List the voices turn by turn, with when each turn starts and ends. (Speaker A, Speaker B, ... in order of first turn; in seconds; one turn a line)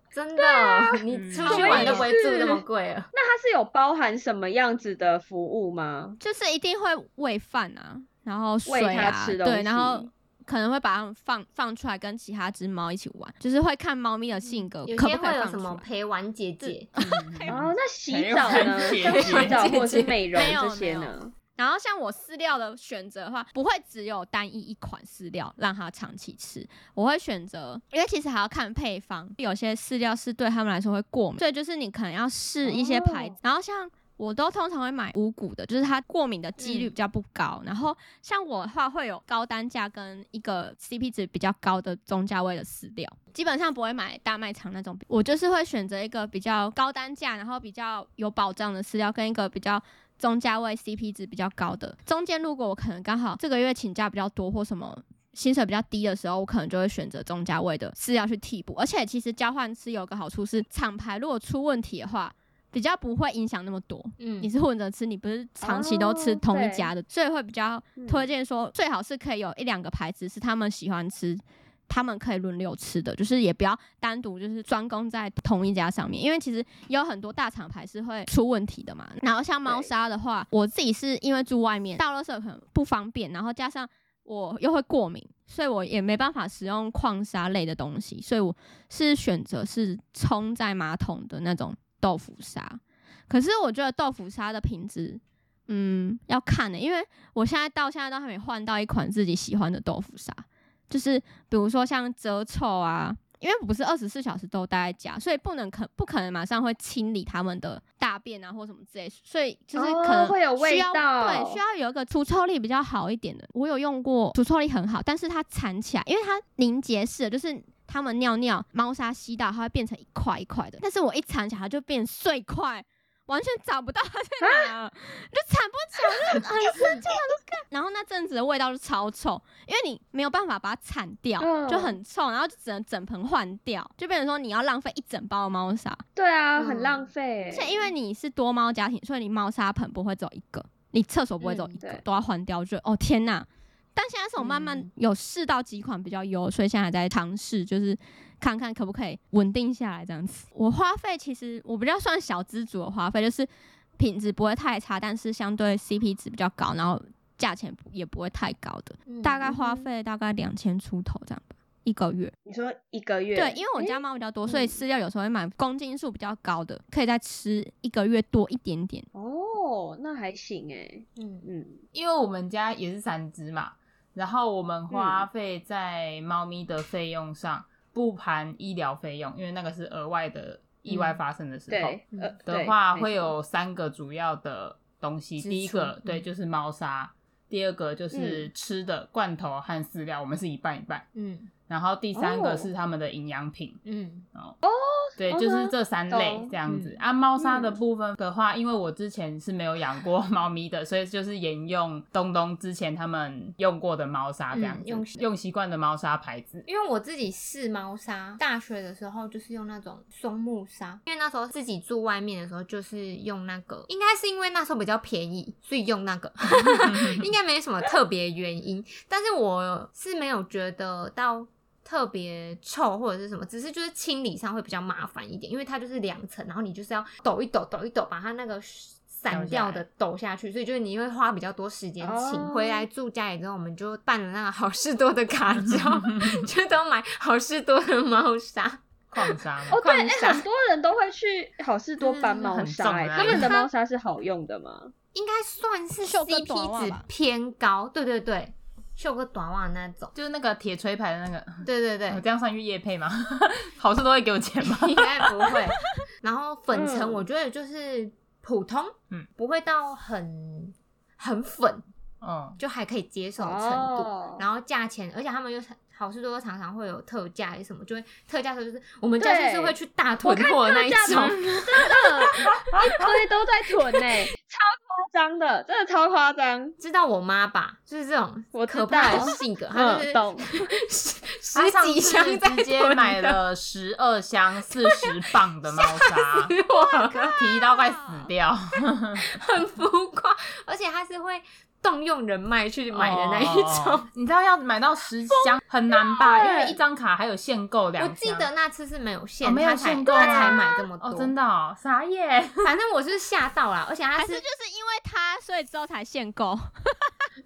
Speaker A: 0.1-3.1
Speaker B: 0.4-2.6
Speaker C: 1.1-1.9
Speaker D: 1.4-2.1
Speaker B: 3.1-6.2
Speaker D: 6.2-15.9
Speaker B: 8.7-10.1
Speaker A: 14.8-16.9
Speaker D: 16.6-17.6
Speaker C: 17.0-19.7
Speaker B: 17.5-21.3
Speaker A: 18.5-20.2
Speaker D: 20.3-136.0
Speaker B: 32.6-33.4
Speaker A: 36.6-36.9
Speaker A: 64.2-64.5
Speaker B: 65.6-66.9
Speaker B: 68.0-68.2
Speaker B: 79.7-79.9
Speaker B: 109.8-111.6
Speaker B: 124.4-124.7
Speaker B: 131.4-132.0
Speaker B: 136.2-137.9
Speaker A: 136.6-137.1
Speaker D: 137.5-162.3
Speaker B: 141.5-142.0
Speaker A: 144.4-144.9
Speaker A: 159.1-159.5
Speaker B: 159.5-159.9
Speaker B: 162.4-164.8
Speaker D: 163.3-169.1
Speaker B: 169.2-171.8
Speaker A: 171.2-171.5
Speaker C: 171.9-191.1
Speaker B: 174.9-175.3
Speaker A: 180.9-181.2
Speaker B: 181.7-183.3
Speaker A: 185.4-186.2
Speaker B: 188.1-188.5
Speaker A: 191.2-191.5
Speaker C: 191.7-193.8
Speaker B: 192.2-192.7
Speaker A: 193.8-194.3
Speaker B: 194.6-196.6
Speaker C: 195.2-206.7
Speaker A: 196.7-197.0
Speaker B: 197.4-197.8
Speaker A: 204.5-205.2
Speaker A: 206.7-240.5
Speaker C: 216.9-217.2
Speaker C: 229.3-229.8
Speaker B: 232.0-232.9
Speaker C: 235.6-236.4
Speaker C: 239.1-239.8
Speaker B: 239.7-244.9
Speaker C: 242.0-243.5
Speaker A: 243.2-243.7
Speaker A: 245.1-250.1
Speaker D: 246.0-247.1
Speaker C: 250.2-255.7
Speaker A: 251.6-252.2
Speaker A: 254.7-261.8
Speaker B: 256.7-257.3
Speaker C: 262.2-262.6
Speaker A: 262.6-273.0
Speaker B: 263.4-264.4
Speaker B: 269.2-276.8
Speaker C: 271.1-271.9
Speaker A: 276.8-283.4
Speaker B: 278.5-280.6
Speaker C: 281.5-286.6
Speaker A: 284.7-285.1
Speaker A: 285.7-287.4
Speaker D: 286.9-288.2
Speaker C: 287.3-289.2
Speaker A: 289.2-294.1
Speaker C: 292.9-298.5
Speaker B: 296.2-296.8
Speaker A: 296.3-296.6
Speaker A: 298.0-301.3
Speaker C: 299.4-302.7
Speaker B: 300.1-300.6
Speaker A: 302.6-304.4
Speaker D: 304.2-307.2